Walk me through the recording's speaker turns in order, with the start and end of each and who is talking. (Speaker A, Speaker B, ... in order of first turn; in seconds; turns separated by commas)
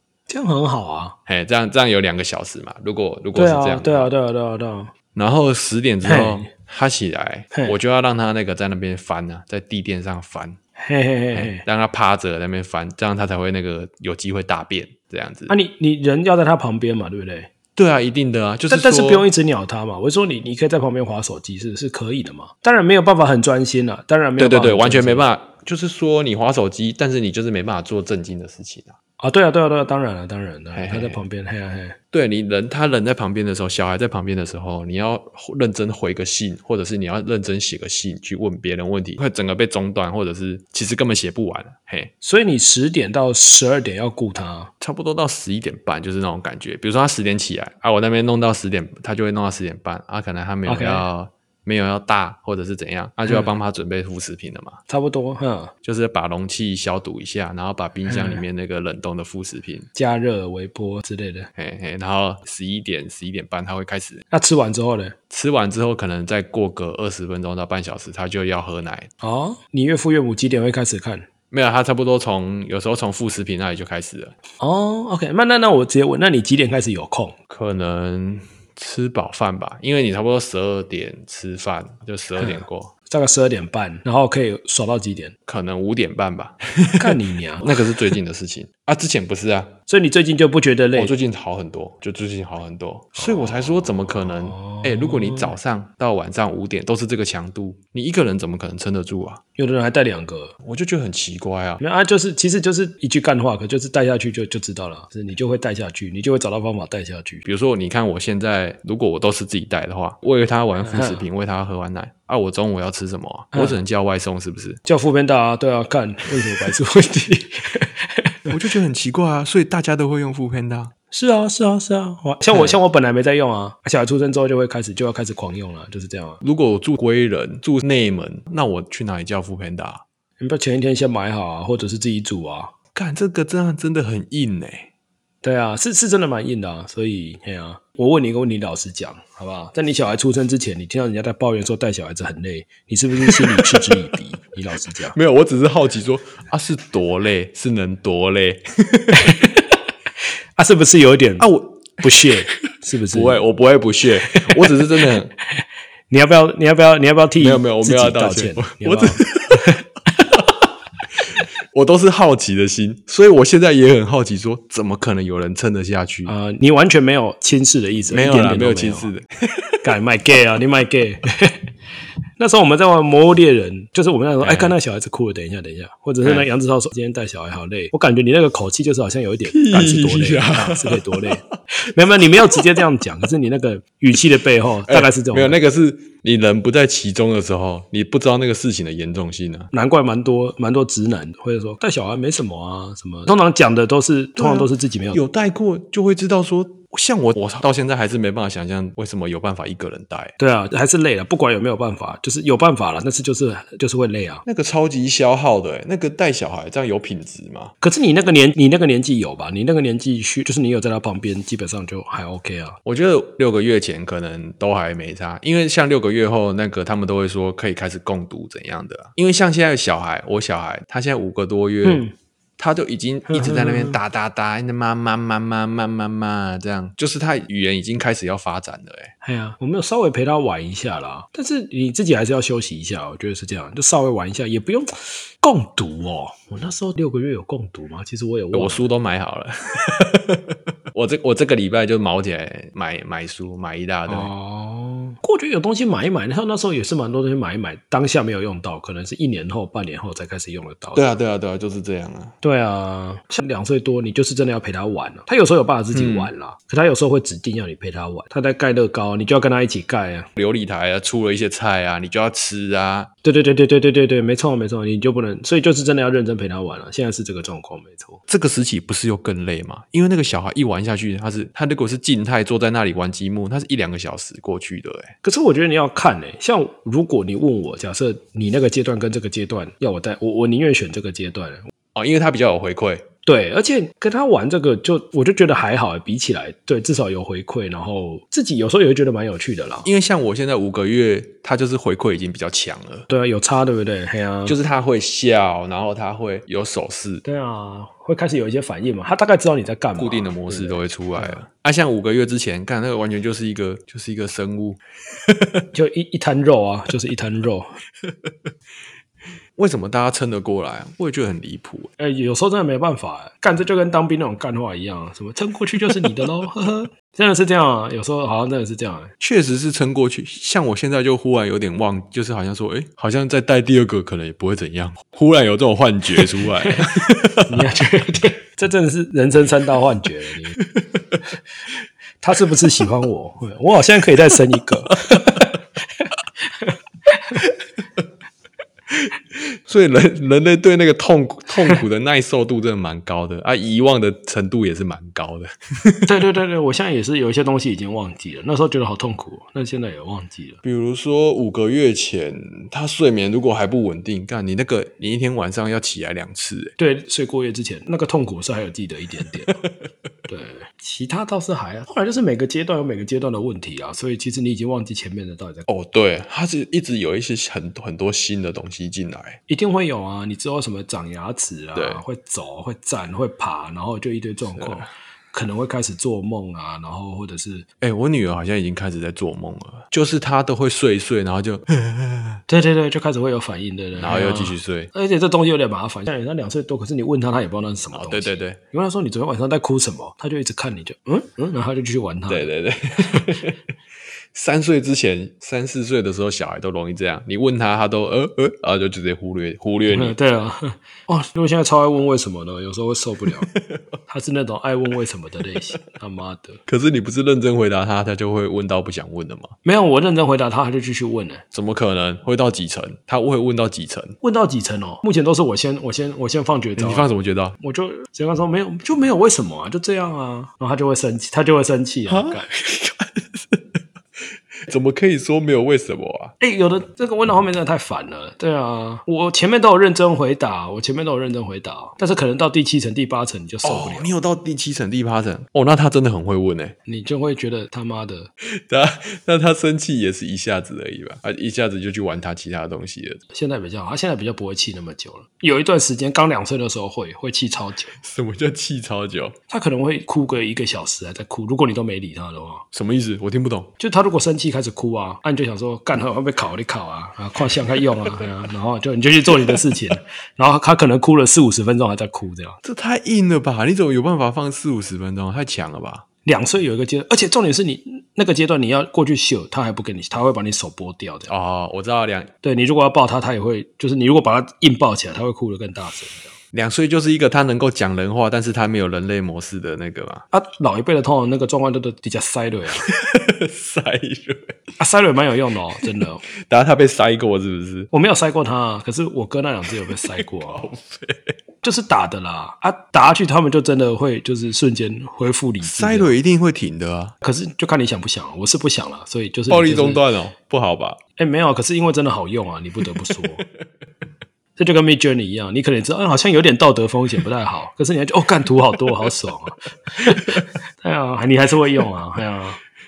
Speaker A: 0.3-1.2, Speaker B: 1.2-4.1, Speaker A: 3.3-4.9, Speaker B: 5.1-10.6, Speaker A: 6.0-6.5, Speaker A: 10.8-11.6, Speaker B: 11.3-15.5, Speaker A: 15.5-17.5, Speaker B: 17.8-19.2, Speaker A: 18.7-25.2, Speaker B: 24.4-28.9, Speaker A: 29.2-32.0, Speaker B: 30.7-31.2, Speaker B: 32.1-42.1, Speaker A: 42.2-44.7, Speaker B: 44.8-54.8, Speaker A: 50.6-51.0, Speaker A: 54.9-55.7, Speaker B: 55.8-59.9, Speaker A: 58.1-58.4, Speaker A: 59.9-61.5, Speaker B: 61.5-64.2, Speaker A: 64.3-65.2, Speaker B: 65.3-69.1, Speaker A: 69.2-71.3, Speaker B: 71.5-74.3, Speaker A: 74.6-77.3, Speaker B: 77.5-82.9, Speaker A: 82.4-85.3, Speaker B: 85.5-89.7, Speaker A: 87.0-87.8, Speaker A: 89.9-91.1, Speaker B: 90.9-99.4, Speaker A: 93.2-95.5, Speaker A: 99.6-100.5, Speaker B: 100.6-101.8, Speaker A: 101.8-107.4, Speaker B: 107.4-114.8, Speaker A: 110.8-111.2, Speaker A: 113.5-113.8, Speaker A: 114.8-118.3, Speaker B: 118.5-120.9, Speaker A: 121.1-126.4, Speaker B: 126.4-130.0, Speaker A: 130.4-132.7, Speaker B: 132.9-134.9, Speaker A: 135.4-145.2, Speaker B: 143.3-143.9, Speaker B: 145.1-149.4, Speaker A: 149.1-149.8, Speaker A: 150.6-151.5, Speaker B: 151.4-152.3, Speaker A: 152.0-153.4, Speaker B: 153.1-155.3, Speaker A: 154.3-159.8, Speaker B: 157.4-159.7, Speaker B: 161.2-166.3, Speaker A: 166.2-169.1, Speaker B: 168.1-169.9, Speaker A: 169.8-171.7, Speaker A: 172.4-185.6, Speaker B: 174.4-174.7, Speaker B: 179.5-181.6, Speaker B: 182.2-182.7, Speaker B: 184.9-189.7, Speaker A: 189.7-195.2, Speaker B: 194.4-200.3, Speaker A: 200.4-204.4, Speaker B: 204.4-207.7, Speaker A: 207.8-212.8, Speaker B: 212.8-222.0, Speaker A: 221.8-222.1, Speaker B: 222.6-229.1, Speaker A: 223.3-224.0, Speaker A: 229.2-238.8, Speaker B: 238.5-244.3, Speaker A: 244.1-251.0, Speaker B: 250.9-252.3, Speaker A: 252.4-260.3, Speaker B: 255.9-256.3, Speaker B: 260.4-263.1, Speaker A: 263.2-268.2, Speaker B: 268.3-275.1, Speaker A: 275.2-281.7, Speaker B: 281.9-283.1, Speaker A: 283.2-289.9, Speaker B: 289.8-293.1, Speaker A: 293.1-294.5, Speaker B: 294.4-297.2, Speaker A: 297.2-301.4, Speaker B: 300.0-304.8, Speaker B: 305.3-305.6, Speaker A: 305.7-307.7, Speaker B: 309.6-311.9, Speaker A: 312.0-319.1, Speaker B: 319.2-327.7, Speaker A: 326.2-330.6, Speaker B: 330.6-331.2, Speaker A: 332.2-337.4, Speaker B: 335.1-335.5, Speaker B: 338.9-346.1, Speaker A: 346.1-350.6, Speaker B: 350.6-356.7, Speaker A: 356.8-359.6, Speaker B: 359.5-359.9, Speaker A: 360.3-365.6, Speaker B: 365.7-369.4, Speaker A: 369.5-377.6, Speaker B: 371.7-372.0, Speaker B: 374.4-374.9, Speaker B: 377.8-382.4, Speaker A: 382.5-392.5, Speaker B: 383.9-384.9, Speaker B: 387.9-388.6, Speaker B: 392.3-393.6, Speaker B: 394.3-400.1, Speaker A: 399.9-403.5, Speaker B: 403.5-403.9, Speaker A: 404.1-406.6, Speaker B: 406.7-409.5, Speaker A: 409.6-411.4, Speaker B: 411.5-414.1, Speaker A: 414.2-417.1, Speaker B: 416.8-417.6, Speaker A: 417.6-422.5, Speaker B: 422.1-423.8, Speaker B: 424.7-426.3, Speaker A: 426.4-434.1, Speaker B: 433.6-436.7, Speaker A: 436.9-438.3, Speaker B: 438.4-443.2, Speaker A: 443.3-447.9, Speaker B: 448.0-449.4, Speaker A: 449.5-452.6, Speaker B: 452.7-453.7, Speaker A: 453.8-462.6, Speaker B: 462.6-466.0, Speaker A: 466.2-471.3, Speaker B: 471.3-472.3, Speaker A: 472.4-476.3, Speaker B: 476.5-480.2, Speaker A: 480.3-482.9, Speaker B: 482.8-484.6, Speaker A: 484.8-486.2, Speaker B: 486.5-487.9, Speaker A: 487.9-490.6, Speaker B: 490.0-491.3, Speaker A: 491.6-496.1, Speaker B: 495.6-497.1, Speaker A: 497.2-500.0, Speaker B: 499.5-501.0, Speaker A: 501.2-503.4, Speaker A: 504.6-512.6, Speaker B: 510.1-510.4